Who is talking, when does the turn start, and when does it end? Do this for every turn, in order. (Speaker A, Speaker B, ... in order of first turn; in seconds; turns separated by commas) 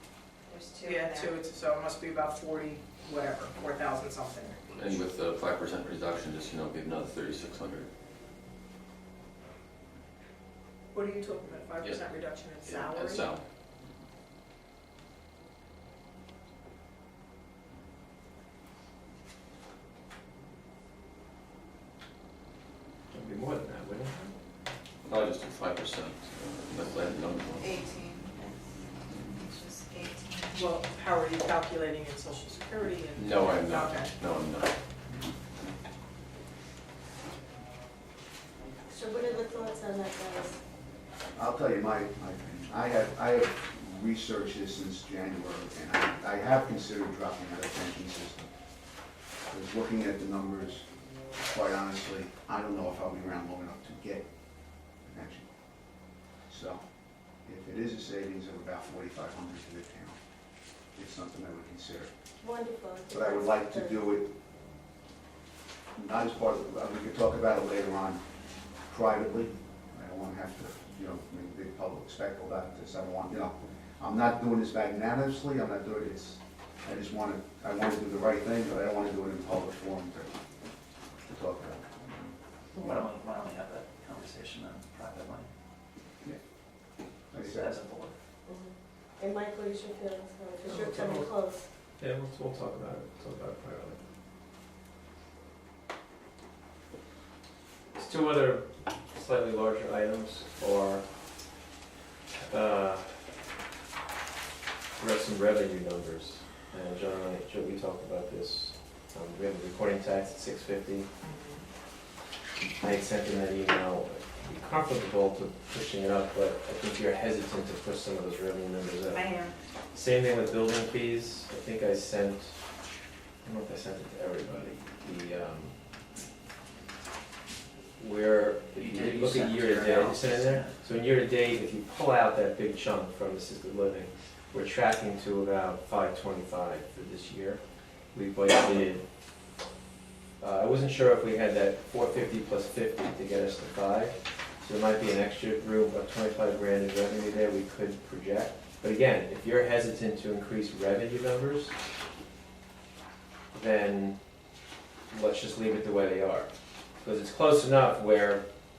Speaker A: 0.5-1.3, Speaker B: 0.8-4.6, Speaker C: 4.7-7.9, Speaker B: 10.9-13.3, Speaker C: 12.6-13.4, Speaker D: 23.1-24.3, Speaker C: 25.1-27.8, Speaker A: 27.6-28.6, Speaker A: 29.3-30.7, Speaker B: 30.5-34.1, Speaker C: 33.2-34.7, Speaker E: 38.9-40.6, Speaker F: 41.4-48.4, Speaker F: 49.5-50.9, Speaker F: 51.4-54.3, Speaker F: 55.0-55.5, Speaker F: 56.5-56.8, Speaker F: 57.4-60.2, Speaker F: 61.0-62.1, Speaker E: 62.4-64.0, Speaker F: 63.1-64.3, Speaker F: 66.0-68.2, Speaker F: 68.9-80.3, Speaker F: 81.2-82.1, Speaker G: 82.8-85.5, Speaker F: 87.3-87.7, Speaker G: 87.4-88.1, Speaker E: 88.5-91.7, Speaker D: 90.6-91.3, Speaker D: 92.0-94.0, Speaker D: 98.0-101.0, Speaker D: 102.5-103.1, Speaker D: 105.0-111.1, Speaker B: 111.2-111.6, Speaker D: 112.8-119.4, Speaker B: 119.1-119.5, Speaker D: 119.9-122.6, Speaker D: 123.4-125.7, Speaker D: 128.0-137.6, Speaker G: 128.8-130.8, Speaker D: 138.1-139.0, Speaker D: 140.4-151.7, Speaker D: 153.5-154.2, Speaker D: 155.1-156.5, Speaker D: 157.0-158.4